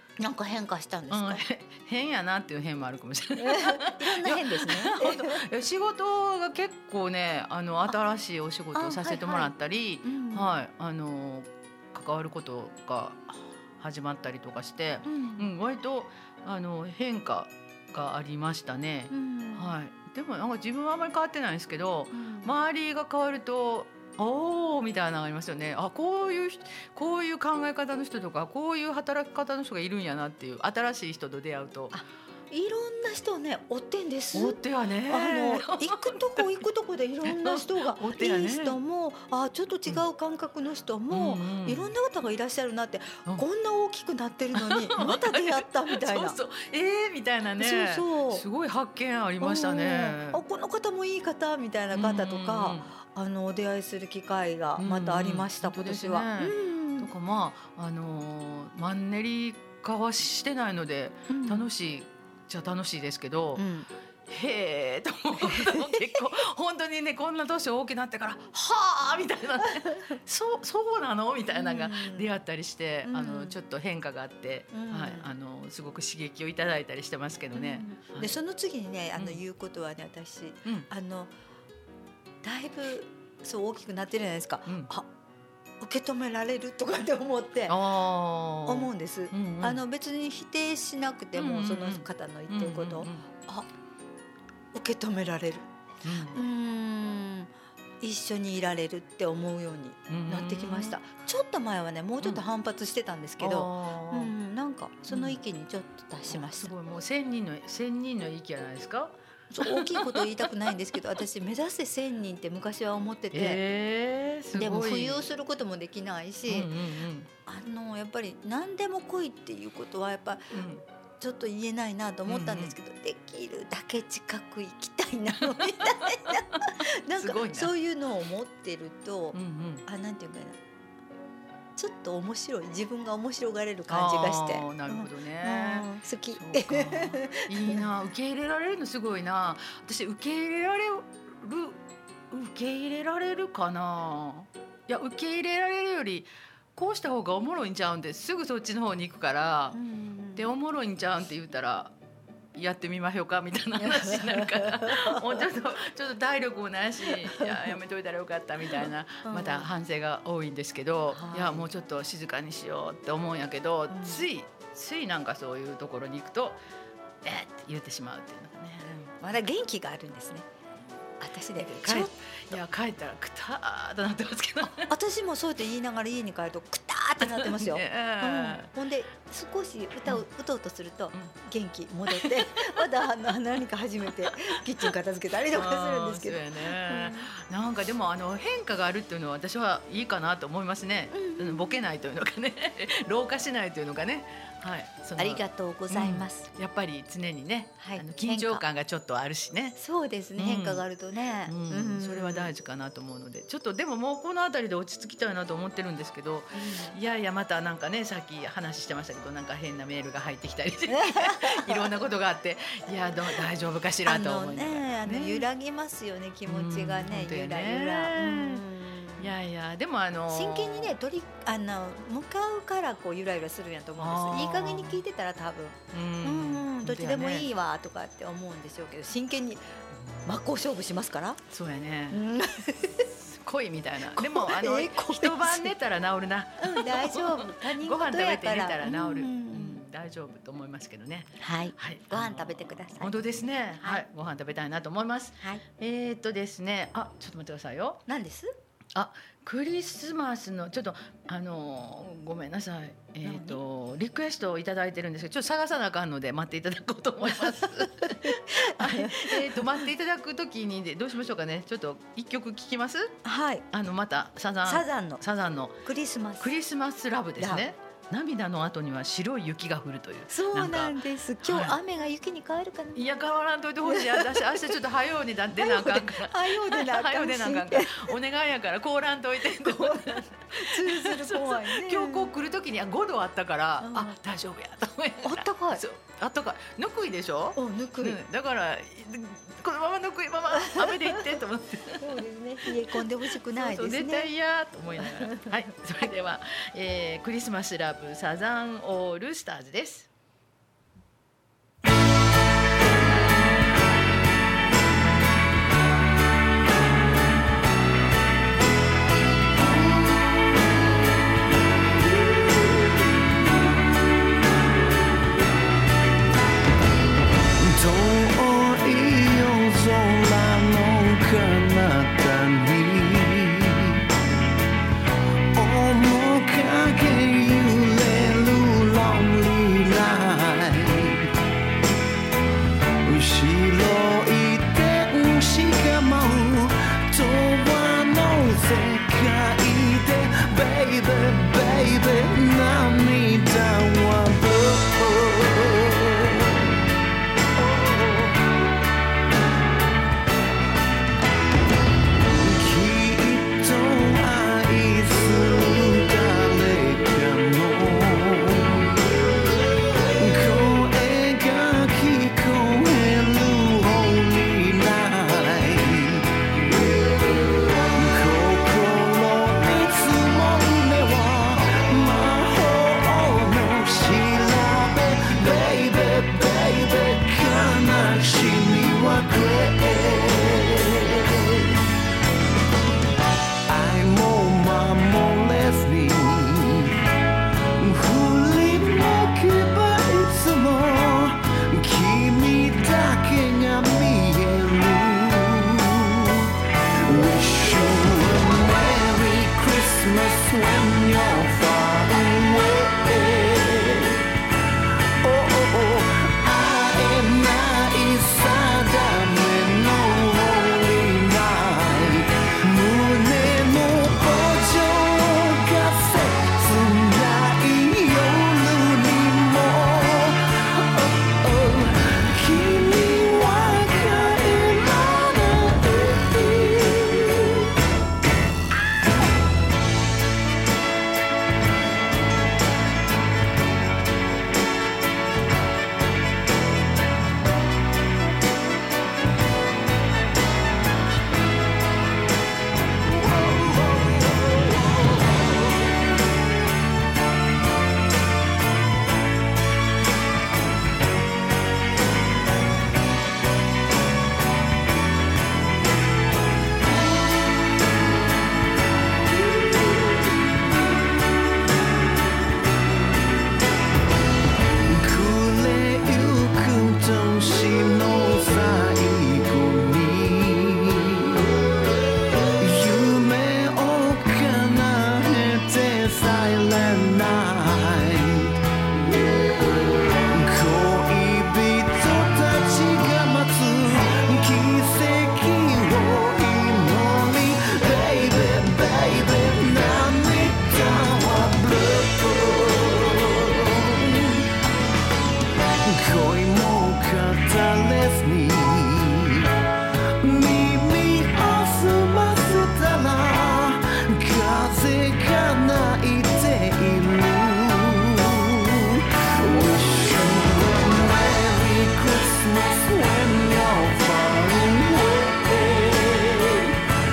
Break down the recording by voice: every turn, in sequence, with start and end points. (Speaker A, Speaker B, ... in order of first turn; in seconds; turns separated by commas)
Speaker A: 0.2-1.4, Speaker B: 1.1-32.0, Speaker A: 3.4-5.4, Speaker A: 8.7-10.5, Speaker A: 15.1-15.5, Speaker A: 19.1-19.7, Speaker A: 22.1-22.5, Speaker A: 31.9-46.4, Speaker B: 34.3-36.6, Speaker B: 37.2-38.8, Speaker B: 41.1-41.9, Speaker B: 44.5-50.4, Speaker A: 47.6-48.5, Speaker A: 49.4-57.1, Speaker B: 51.9-52.9, Speaker B: 54.8-63.6, Speaker A: 61.3-61.7, Speaker A: 63.6-63.9, Speaker B: 64.3-78.3, Speaker A: 65.4-66.2, Speaker A: 71.5-72.3, Speaker A: 73.0-73.6, Speaker A: 74.7-75.3, Speaker A: 77.5-81.3, Speaker A: 82.4-85.1, Speaker A: 85.8-87.8, Speaker B: 87.7-89.8, Speaker A: 88.7-93.7, Speaker B: 91.3-93.3, Speaker A: 94.7-106.7, Speaker B: 96.0-96.4, Speaker B: 100.1-101.0, Speaker B: 103.4-104.3, Speaker B: 105.1-105.4, Speaker B: 106.3-110.5, Speaker A: 109.5-113.6, Speaker B: 113.3-115.3, Speaker A: 114.5-116.7, Speaker B: 116.5-117.3, Speaker A: 117.5-120.6, Speaker B: 120.5-120.8, Speaker A: 121.2-130.6, Speaker B: 122.3-122.8, Speaker B: 125.5-127.7, Speaker B: 129.3-129.8, Speaker A: 131.8-137.8, Speaker B: 133.9-149.8, Speaker A: 149.7-150.5, Speaker B: 150.4-151.9, Speaker B: 152.5-166.6, Speaker A: 153.8-155.5, Speaker A: 157.1-157.8, Speaker A: 158.8-159.7, Speaker A: 161.1-161.7, Speaker A: 163.9-164.3, Speaker B: 167.2-169.1, Speaker A: 169.1-170.5, Speaker A: 171.2-172.1, Speaker B: 171.6-174.9, Speaker A: 174.8-187.3, Speaker B: 177.2-178.7, Speaker B: 182.1-182.8, Speaker B: 184.6-184.8, Speaker B: 185.4-199.8, Speaker A: 191.1-191.8, Speaker A: 195.2-196.5, Speaker A: 197.8-198.6, Speaker A: 199.8-202.5, Speaker B: 200.4-200.8, Speaker B: 201.5-215.5, Speaker A: 206.5-207.0, Speaker A: 210.9-211.9, Speaker A: 214.1-219.4, Speaker B: 216.5-218.7, Speaker B: 219.2-220.9, Speaker A: 220.3-229.6, Speaker B: 224.0-225.0, Speaker B: 225.9-227.5, Speaker B: 230.0-230.3, Speaker A: 230.2-231.4, Speaker B: 231.5-232.2, Speaker A: 232.1-233.1, Speaker B: 233.2-248.0, Speaker A: 234.1-235.7, Speaker A: 236.6-239.8, Speaker A: 241.4-243.2, Speaker A: 248.1-248.5, Speaker B: 248.9-263.2, Speaker A: 253.2-253.6, Speaker A: 257.2-259.9, Speaker A: 263.2-263.7, Speaker B: 263.7-265.8, Speaker A: 264.6-265.2, Speaker A: 265.8-266.5, Speaker B: 266.4-271.8, Speaker A: 267.4-267.7, Speaker A: 270.3-273.1, Speaker B: 272.9-300.1, Speaker A: 273.8-274.8, Speaker A: 275.6-278.1, Speaker A: 279.5-282.3, Speaker A: 283.8-284.1, Speaker A: 285.2-285.8, Speaker A: 287.6-288.2, Speaker A: 290.5-291.4, Speaker A: 292.0-294.3, Speaker A: 295.0-295.6, Speaker C: 317.6-324.1, Speaker C: 325.5-331.3, Speaker C: 333.0-346.7, Speaker C: 347.6-348.5, Speaker C: 352.4-359.1, Speaker C: 360.2-366.3, Speaker C: 367.8-381.8, Speaker C: 383.7-387.0, Speaker C: 387.8-396.5, Speaker C: 397.0-404.3, Speaker C: 405.2-427.7, Speaker C: 464.9-471.5, Speaker C: 472.6-494.5, Speaker C: 495.8-499.5, Speaker C: 500.2-516.8